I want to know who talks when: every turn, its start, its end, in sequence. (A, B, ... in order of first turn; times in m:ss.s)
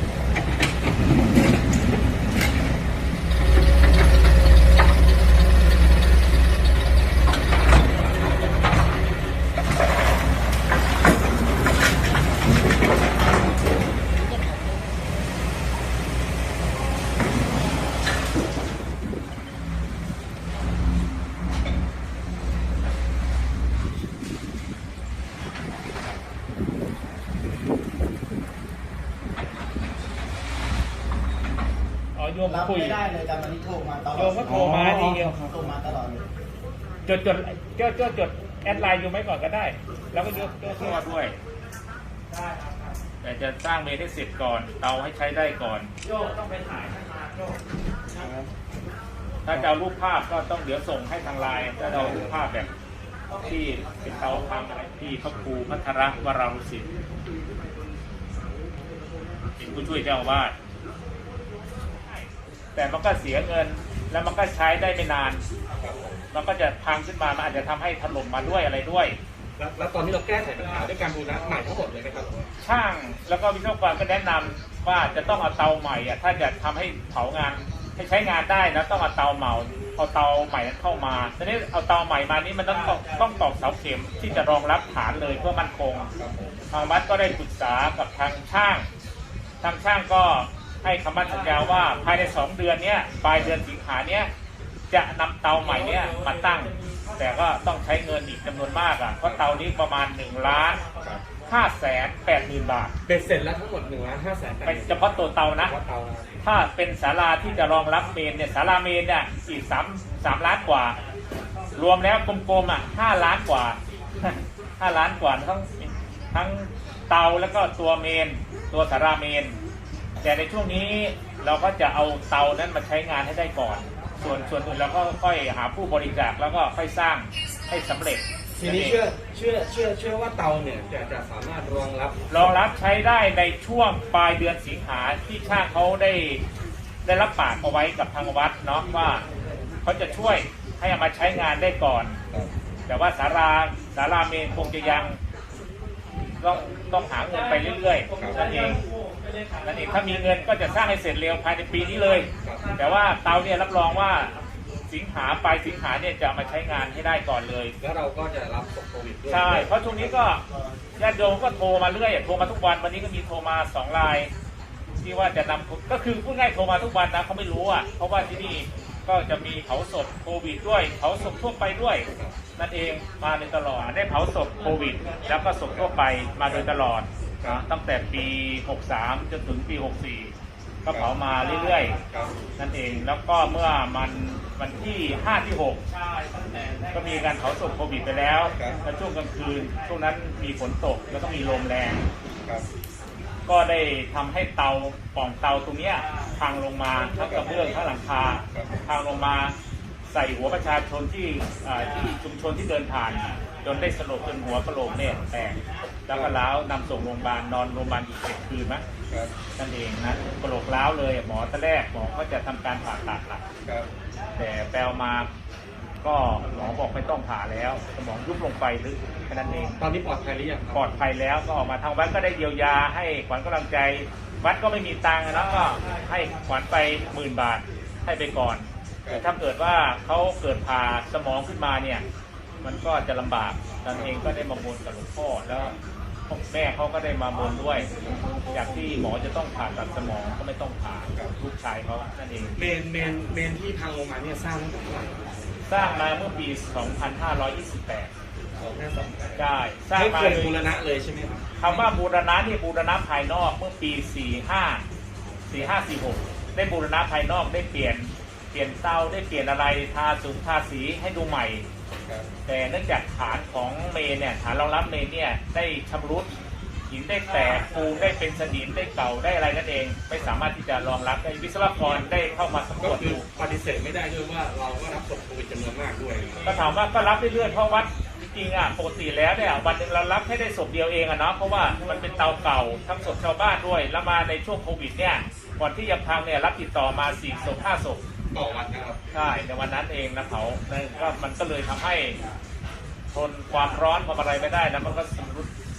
0:32.1-0:33.0 A
0:32.7-0:34.4 B
0:34.1-0:35.5 A
0:35.5-0:36.2 B
0:37.1-0:41.4 A
0:42.3-0:42.9 C
0:43.2-0:45.9 A
0:46.0-0:47.6 C
0:49.4-0:52.7 A
0:51.9-0:52.3 D
0:53.4-0:56.9 A
0:59.6-1:00.5 A
1:02.7-1:05.4 A
1:05.8-1:06.2 D
1:06.3-1:09.2 A
1:09.6-1:12.5 D
1:12.6-1:26.1 A
1:26.2-1:26.6 D
1:26.7-1:28.9 A
1:29.6-1:34.3 A
1:34.9-1:40.8 A
1:36.0-1:37.1 C
1:41.4-1:42.9 A
1:43.0-1:46.3 D
1:44.6-1:45.7 A
1:46.4-1:51.0 A
1:51.7-1:59.6 A
2:00.2-2:09.0 A
2:08.6-2:12.2 D
2:12.3-2:16.4 A
2:17.0-2:19.2 A
2:19.8-2:22.2 A
2:22.9-2:25.2 A
2:26.4-2:28.8 A
2:28.0-2:29.7 C
2:28.2-2:28.4 D
2:29.6-2:34.4 A
2:32.4-2:32.7 D
2:34.9-2:37.7 A
2:37.8-2:40.0 D
2:39.3-2:40.4 A
2:41.0-2:44.3 A
2:45.0-3:00.3 A
2:52.1-2:52.4 D
2:56.4-2:56.7 D
3:00.8-3:02.0 A
3:00.9-3:01.1 D
3:02.1-3:02.4 D
3:02.6-3:05.8 A
3:06.1-3:06.9 C
3:06.9-3:12.0 A
3:08.5-3:08.8 D
3:13.5-3:19.5 A
3:17.3-3:17.6 D
3:18.5-3:18.8 D
3:20.1-3:28.8 A
3:26.1-3:26.4 D
3:29.6-3:33.4 A
3:33.6-3:33.9 D
3:34.4-3:35.3 A
3:36.0-3:39.8 A
3:39.8-3:40.9 D
3:40.7-3:52.0 A
3:49.0-3:49.3 D
3:52.6-3:55.8 A
3:56.3-3:57.9 A
3:58.5-4:02.5 A
4:02.6-4:05.3 D
4:05.7-4:08.1 A
4:08.6-4:11.9 D
4:09.4-4:10.5 A
4:11.6-4:14.8 A
4:15.5-4:21.7 A
4:22.4-4:26.3 A
4:26.9-4:33.2 A
4:32.8-4:36.5 D
4:36.4-4:48.0 A
4:48.3-4:49.0 D
4:49.1-4:52.2 A
4:53.1-4:55.5 A